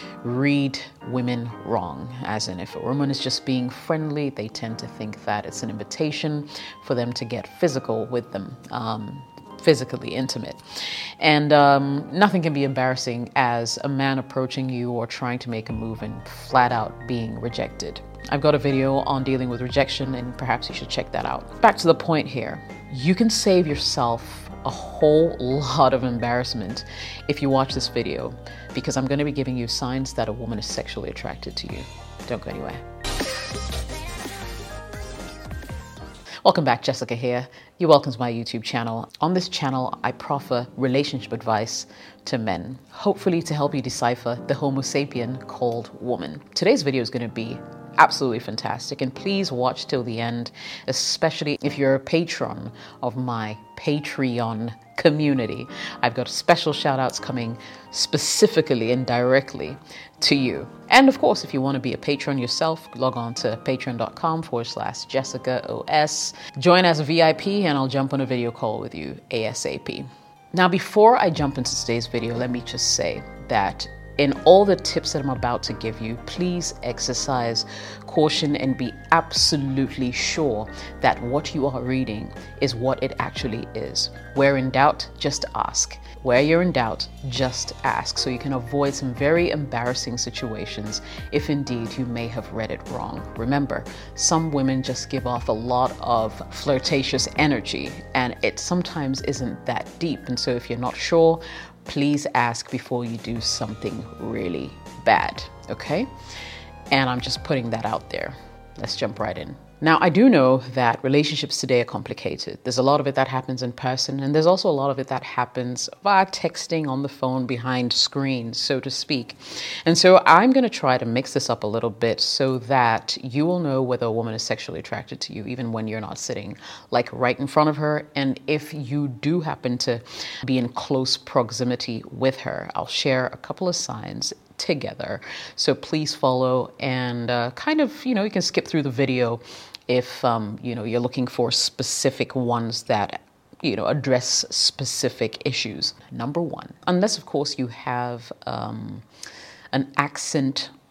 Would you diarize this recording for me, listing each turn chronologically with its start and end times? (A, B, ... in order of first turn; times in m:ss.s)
0:00.2-0:32.8 A
0:36.4-1:46.1 A
1:46.9-2:29.1 A
2:29.7-2:30.7 A